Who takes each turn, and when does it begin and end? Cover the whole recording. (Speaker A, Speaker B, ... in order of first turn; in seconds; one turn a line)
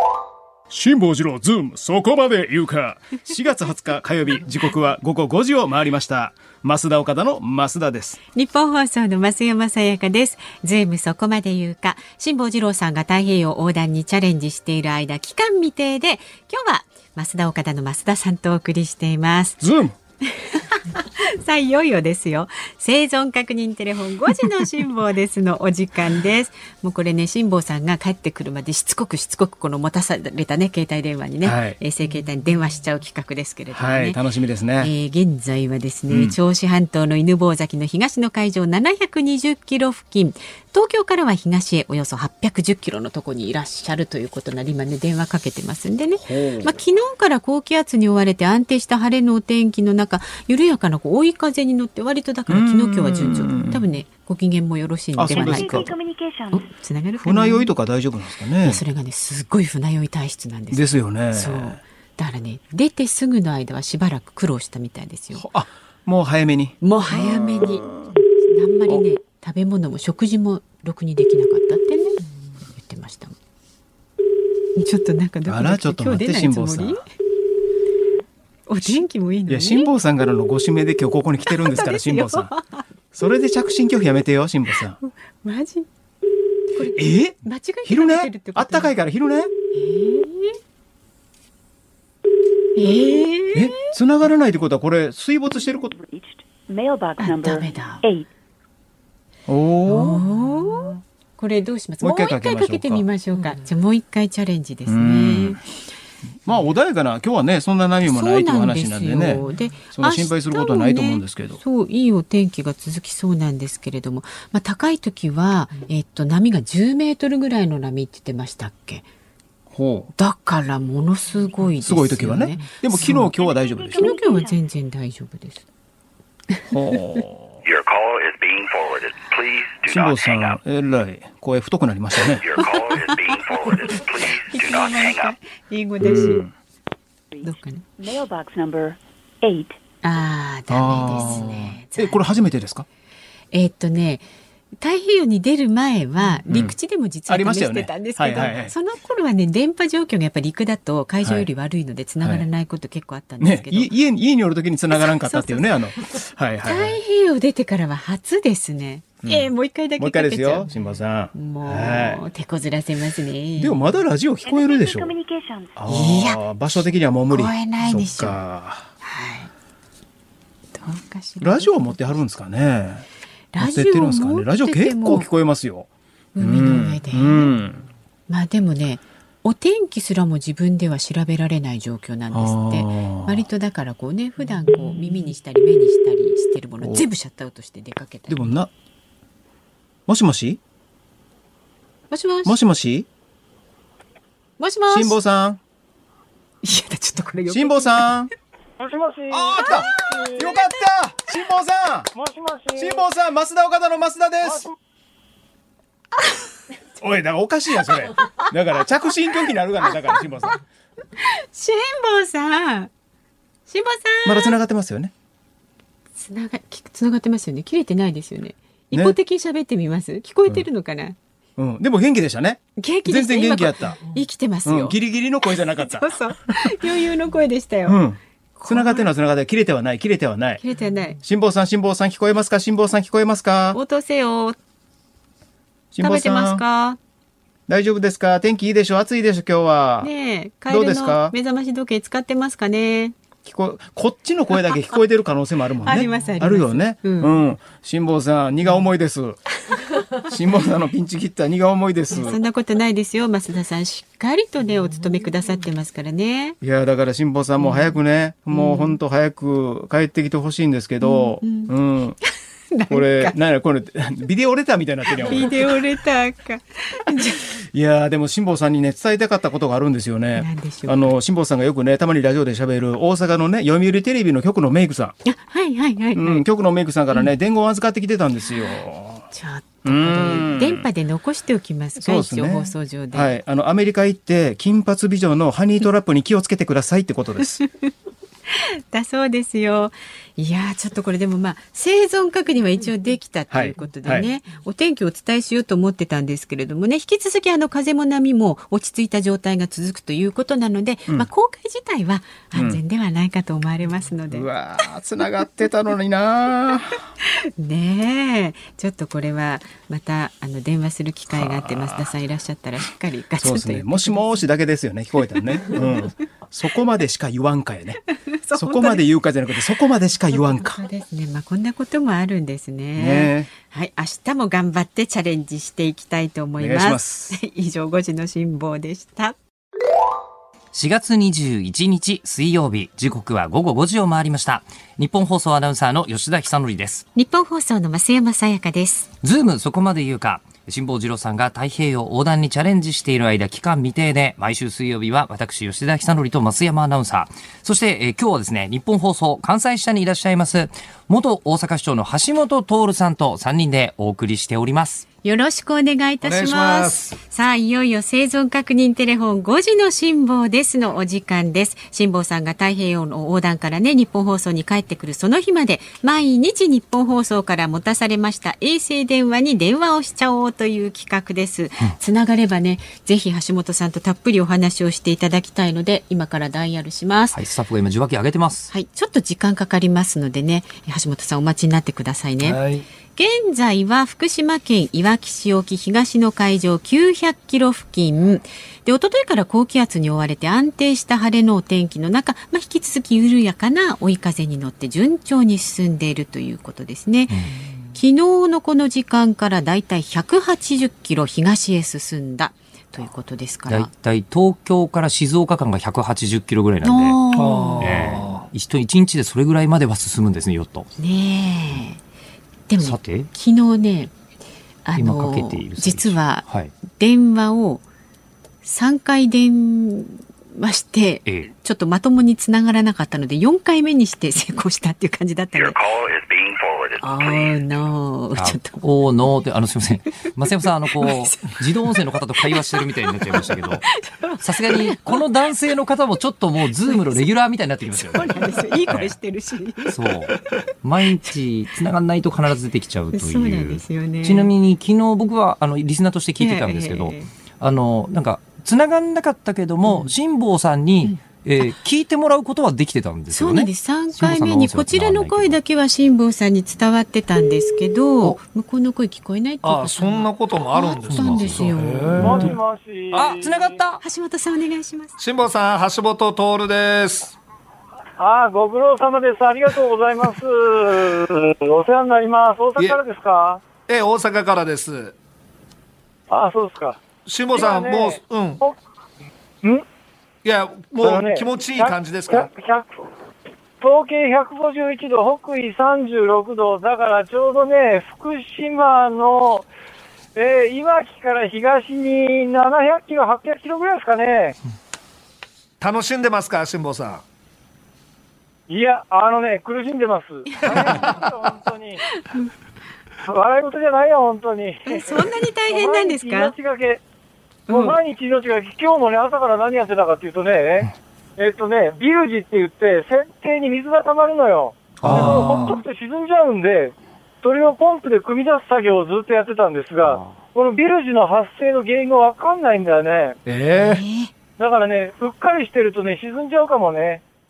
Speaker A: 0.7-8.2
Speaker B: 8.3-19.6
Speaker A: 19.6-19.9
Speaker B: 20.2-34.2
Speaker A: 31.4-31.8
Speaker A: 33.7-34.9
Speaker B: 34.8-55.9
Speaker A: 36.1-36.4
Speaker A: 46.2-46.7
Speaker A: 52.5-53.8
Speaker A: 55.1-55.9
Speaker C: 55.3-56.7
Speaker B: 56.5-57.7
Speaker A: 57.2-58.8
Speaker B: 58.6-65.5
Speaker A: 60.7-61.8
Speaker A: 65.3-68.1
Speaker B: 66.8-72.2
Speaker B: 72.7-73.3
Speaker B: 74.8-77.0
Speaker A: 75.5-77.0
Speaker B: 78.7-79.9
Speaker A: 78.8-82.5
Speaker B: 81.5-82.8
Speaker A: 83.1-85.0
Speaker B: 85.0-85.9
Speaker B: 86.8-88.9
Speaker A: 86.9-89.5
Speaker B: 89.7-90.6
Speaker B: 92.8-93.8
Speaker A: 93.5-95.9
Speaker C: 95.7-98.3
Speaker B: 97.2-98.0
Speaker A: 99.5-100.2
Speaker B: 99.8-105.6
Speaker A: 102.0-103.1
Speaker A: 104.9-105.6
Speaker A: 106.5-111.6
Speaker B: 108.0-119.0
Speaker A: 119.7-120.1
Speaker B: 120.2-123.3
Speaker A: 121.8-124.1
Speaker C: 123.0-124.6
Speaker B: 123.9-125.6
Speaker A: 126.7-127.6
Speaker D: 127.6-130.6
Speaker A: 129.9-132.6
Speaker D: 132.4-135.4
Speaker B: 132.6-136.5
Speaker A: 136.0-136.5
Speaker C: 137.3-139.8
Speaker B: 137.4-137.8
Speaker B: 140.0-142.5
Speaker A: 140.7-142.8
Speaker B: 143.5-144.3
Speaker B: 144.8-153.9
Speaker A: 146.2-146.8
Speaker A: 147.3-148.7
Speaker A: 151.2-151.5
Speaker A: 152.2-152.5
Speaker A: 153.4-157.0
Speaker B: 155.2-155.7
Speaker B: 156.6-160.7
Speaker A: 159.2-162.2
Speaker B: 161.3-164.0
Speaker A: 163.6-165.1
Speaker C: 164.4-165.8
Speaker A: 165.8-168.9
Speaker B: 165.9-166.4
Speaker B: 167.3-168.4
Speaker B: 169.0-169.5
Speaker B: 170.8-172.2
Speaker A: 171.4-173.1
Speaker B: 173.6-175.3
Speaker A: 173.6-177.8
Speaker B: 176.4-177.5
Speaker B: 178.3-188.5
Speaker A: 182.3-183.5
Speaker A: 186.8-187.1
Speaker A: 188.3-188.7
Speaker A: 190.1-190.6
Speaker B: 192.1-192.6
Speaker A: 192.4-193.1
Speaker B: 194.6-195.2
Speaker A: 194.9-195.6
Speaker B: 196.6-198.1
Speaker A: 197.5-198.3
Speaker E: 198.8-200.5
Speaker A: 199.3-202.1
Speaker B: 199.7-200.6
Speaker E: 202.1-203.0
Speaker A: 202.8-204.7
Speaker E: 204.4-204.7
Speaker A: 207.0-210.6
Speaker B: 211.2-212.9
Speaker B: 213.7-214.6
Speaker A: 214.2-215.1
Speaker B: 216.2-221.2
Speaker A: 218.9-219.2
Speaker A: 221.6-224.1
Speaker B: 222.8-228.0
Speaker A: 224.7-226.8
Speaker A: 227.9-230.6
Speaker B: 228.6-229.1
Speaker B: 230.6-231.2
Speaker A: 231.2-233.8
Speaker B: 233.7-234.6
Speaker A: 235.9-236.6
Speaker B: 236.0-237.0
Speaker A: 237.7-240.1
Speaker B: 240.0-243.2
Speaker A: 240.7-241.3
Speaker A: 243.4-249.4
Speaker B: 245.8-247.4
Speaker A: 250.2-252.4
Speaker B: 252.1-256.6
Speaker A: 256.6-262.2
Speaker B: 257.6-258.0
Speaker B: 258.5-259.0
Speaker B: 261.0-261.7
Speaker B: 262.7-263.4
Speaker A: 262.9-265.8
Speaker B: 265.2-267.4
Speaker A: 267.7-275.2
Speaker B: 270.4-271.1
Speaker B: 275.2-276.4
Speaker A: 276.1-279.2
Speaker B: 279.3-283.4
Speaker A: 279.8-280.9
Speaker A: 282.0-287.6
Speaker B: 288.5-304.5
Speaker A: 293.5-294.3
Speaker A: 302.5-302.8
Speaker A: 304.3-307.0
Speaker B: 307.6-314.3
Speaker A: 311.3-312.1
Speaker A: 313.4-318.0
Speaker B: 315.7-316.0
Speaker B: 318.3-319.1
Speaker A: 318.5-320.8
Speaker B: 320.3-329.4
Speaker A: 323.0-323.5
Speaker A: 326.6-327.4
Speaker F: 330.7-337.1
Speaker B: 337.2-339.1
Speaker F: 339.2-355.1
Speaker B: 355.2-377.4
Speaker G: 356.2-357.2
Speaker F: 377.3-378.7
Speaker B: 378.7-382.6
Speaker F: 382.4-382.9
Speaker B: 383.1-397.4
Speaker B: 397.9-403.9
Speaker F: 403.7-407.2
Speaker B: 406.8-408.0
Speaker G: 407.3-408.5
Speaker F: 407.8-410.9
Speaker B: 411.0-412.0
Speaker B: 412.7-414.1
Speaker F: 412.8-413.3
Speaker B: 414.9-417.8
Speaker F: 415.0-416.7
Speaker B: 418.6-425.8
Speaker F: 421.2-421.5
Speaker D: 425.5-427.6
Speaker B: 427.0-428.9
Speaker F: 428.4-433.9
Speaker B: 430.9-431.6
Speaker B: 432.4-435.3
Speaker F: 434.4-438.4
Speaker B: 436.9-437.3
Speaker B: 438.0-440.3
Speaker F: 438.9-439.1
Speaker F: 439.9-455.6
Speaker B: 443.1-444.5
Speaker B: 446.4-447.3
Speaker B: 449.9-450.1
Speaker B: 453.3-462.5
Speaker G: 459.6-462.6
Speaker F: 461.1-461.7
Speaker E: 462.2-463.8
Speaker F: 463.1-464.0
Speaker B: 464.0-465.2
Speaker G: 465.2-467.4
Speaker E: 468.2-473.6
Speaker G: 473.9-475.1
Speaker E: 476.3-477.0
Speaker G: 477.3-478.6
Speaker E: 477.5-478.8
Speaker G: 480.4-482.5
Speaker E: 481.0-482.9
Speaker E: 483.8-489.7
Speaker E: 490.4-494.6
Speaker G: 495.8-497.2
Speaker E: 498.7-502.0
Speaker B: 500.5-501.0
Speaker G: 500.7-501.2
Speaker B: 502.1-502.5
Speaker E: 503.2-507.0
Speaker B: 504.9-506.5
Speaker E: 507.7-523.4
Speaker B: 507.7-508.0
Speaker G: 515.0-515.8
Speaker G: 523.5-524.0
Speaker B: 523.8-524.3
Speaker E: 524.6-527.2